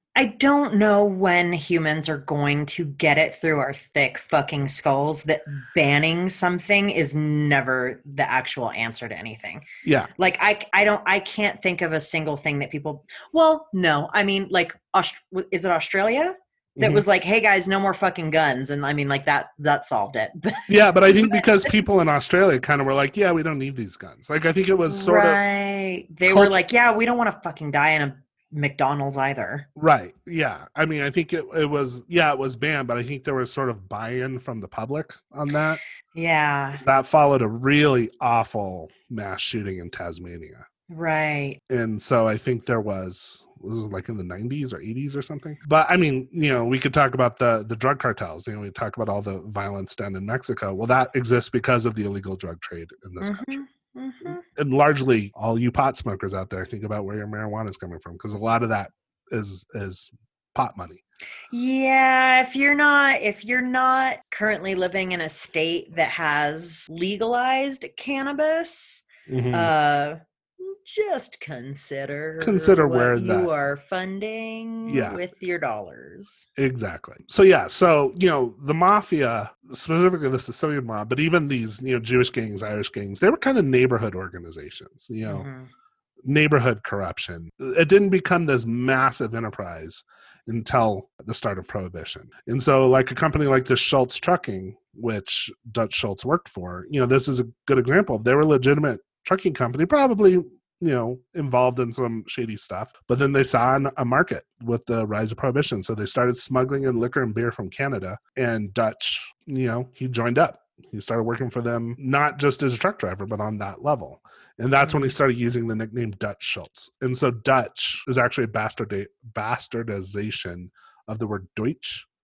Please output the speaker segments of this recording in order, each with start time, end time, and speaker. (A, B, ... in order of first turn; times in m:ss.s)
0:00.2-0:09.6 A
0:09.8-0:10.1 B
0:10.2-0:21.7 A
0:16.8-0:17.0 B
0:20.7-0:25.4 B
0:24.9-0:29.7 A
0:26.3-0:26.5 B
0:29.8-0:35.8 B
0:36.2-0:36.8 A
0:36.8-0:40.7 B
0:40.9-0:41.6 A
0:41.7-0:53.6 B
0:53.2-0:54.4 A
0:54.2-1:01.0 B
1:01.5-1:16.5 A
1:09.3-1:09.7 B
1:12.4-1:13.5 B
1:14.9-1:15.2 B
1:16.6-1:25.5 B
1:25.2-1:25.7 A
1:26.2-2:02.1 B
1:54.8-1:55.1 A